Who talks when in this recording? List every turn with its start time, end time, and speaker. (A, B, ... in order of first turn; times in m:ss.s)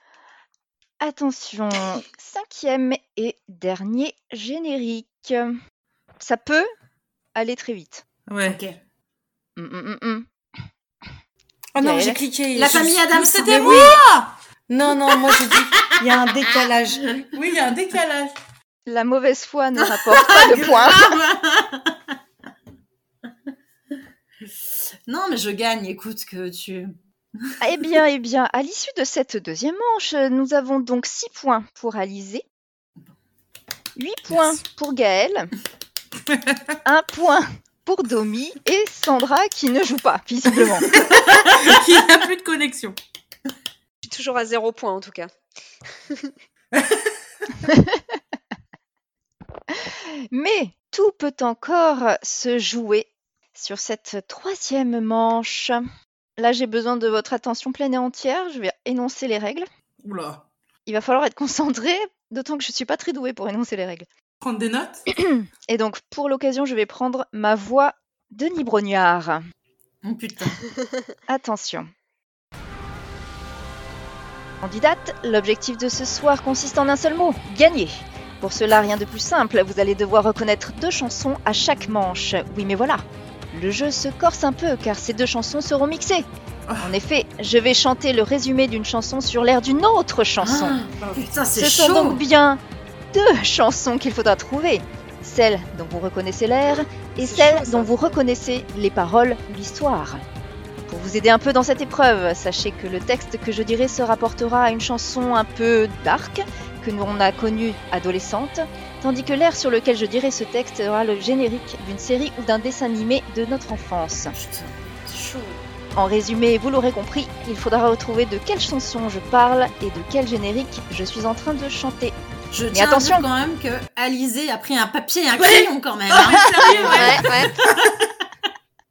0:01.0-0:05.6 A
0:06.2-0:06.7 A
0:07.3-0:08.0 A
0:08.3-0:08.6 B
0:08.4-0:08.8 C
0:09.6-0:10.3 A
0:11.7-0:14.0 D
0:11.8-0:12.2 A
0:12.5-0:14.0 C
0:13.1-0:14.3 B
0:14.7-0:17.2 D
0:17.3-0:18.3 B
0:18.8-0:21.2 A
0:19.8-0:22.0 C
0:25.1-0:26.9 C
0:27.6-0:32.4 A
0:34.0-0:35.5 A
0:36.3-0:36.6 B
0:36.8-0:40.9 A
0:40.9-0:43.0 B
0:44.0-0:45.3 E
0:46.7-0:47.1 B
0:47.6-0:48.2 A
0:49.7-0:55.8 A
0:56.4-0:59.7 A
1:00.0-1:00.4 B
1:00.8-1:04.1 A
1:04.4-1:05.0 B
1:05.1-1:09.4 A
1:10.0-1:10.6 C
1:11.3-1:11.9 A
1:14.6-1:26.2 A
1:26.7-1:26.9 B
1:26.8-1:30.8 A
1:30.4-1:32.2 C
1:31.0-1:31.3 D
1:31.5-1:32.6 A
1:33.1-1:40.2 A
1:37.2-1:38.1 E
1:40.9-1:54.3 A
1:54.3-1:55.6 C
1:55.9-2:02.1 A
2:02.5-2:07.2 C
2:02.7-2:03.2 A
2:05.4-2:08.1 B
2:06.8-2:07.6 E